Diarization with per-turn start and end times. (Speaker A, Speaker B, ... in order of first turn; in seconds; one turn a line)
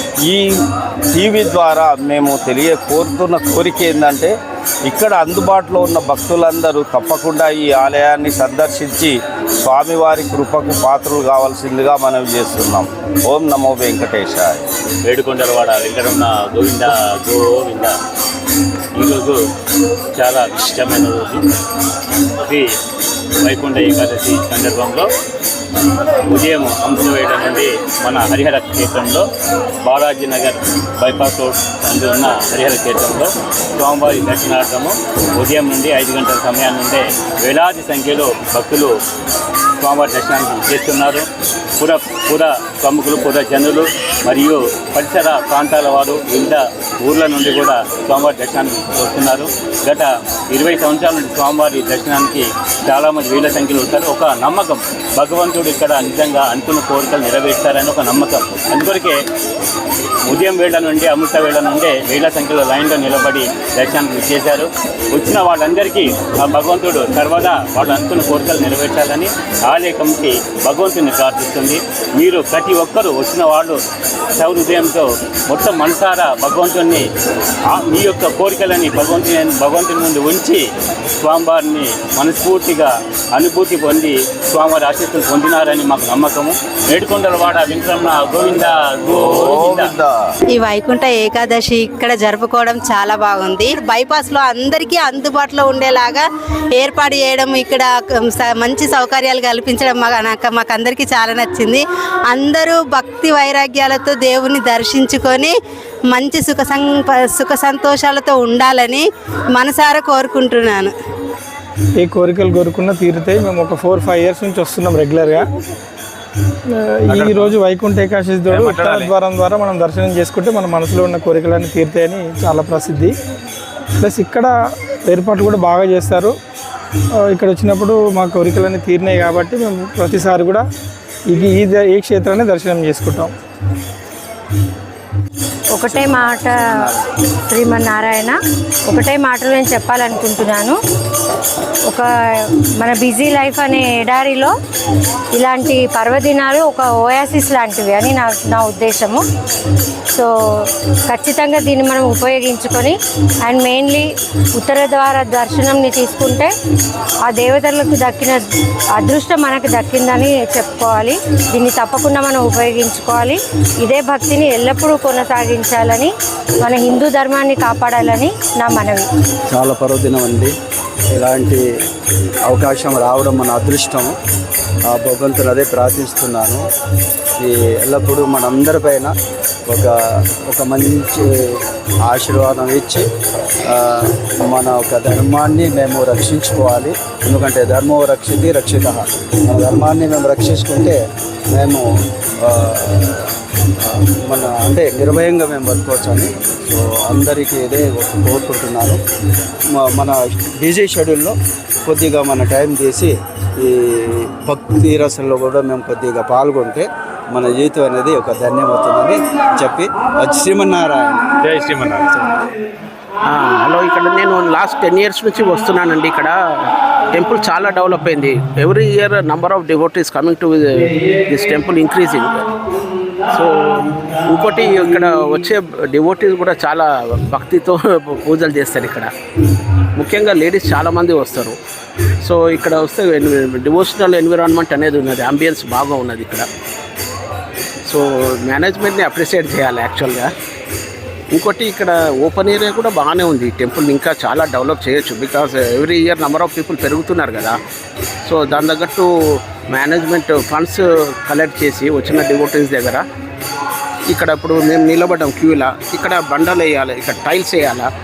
Speaker A: 0.2-14.6
Speaker B: 15.1-17.9
Speaker B: 18.9-19.4
Speaker B: 20.1-21.4
Speaker B: 22.4-22.7
Speaker B: 23.4-25.1
Speaker B: 26.3-29.3
Speaker B: 29.8-38.9
Speaker B: 39.8-41.3
Speaker B: 41.8-59.2
Speaker B: 60.3-73.8
Speaker B: 74.3-77.1
Speaker B: 77.7-80.7
Speaker B: 81.2-89.9
Speaker A: 89.1-90.2
Speaker C: 90.5-105.5
Speaker C: 106.1-110.9
Speaker D: 112.0-115.5
Speaker D: 116.7-123.1
Speaker E: 117.1-117.5
Speaker E: 118.5-119.1
Speaker D: 124.0-124.5
Speaker D: 125.1-126.3
Speaker D: 127.3-130.6
Speaker D: 131.3-133.3
Speaker F: 135.7-136.8
Speaker G: 135.8-137.1
Speaker F: 137.5-140.8
Speaker F: 142.8-144.5
Speaker F: 145.3-149.2
Speaker F: 150.1-156.5
Speaker F: 157.3-158.4
Speaker F: 159.0-166.1
Speaker F: 166.6-169.0
Speaker G: 169.5-170.5
Speaker G: 171.1-171.6
Speaker G: 172.5-174.2
Speaker G: 174.9-176.6
Speaker G: 177.4-179.1
Speaker G: 179.7-183.1
Speaker G: 183.7-191.0
Speaker G: 191.5-191.9
Speaker G: 192.4-193.3
Speaker G: 193.8-199.0
Speaker G: 199.7-211.3
Speaker E: 211.4-212.4
Speaker H: 213.2-222.4
Speaker H: 223.3-229.1
Speaker H: 230.0-231.6
Speaker H: 232.2-236.5
Speaker H: 237.9-240.3
Speaker H: 241.3-247.6
Speaker H: 248.2-253.1
Speaker H: 254.1-257.9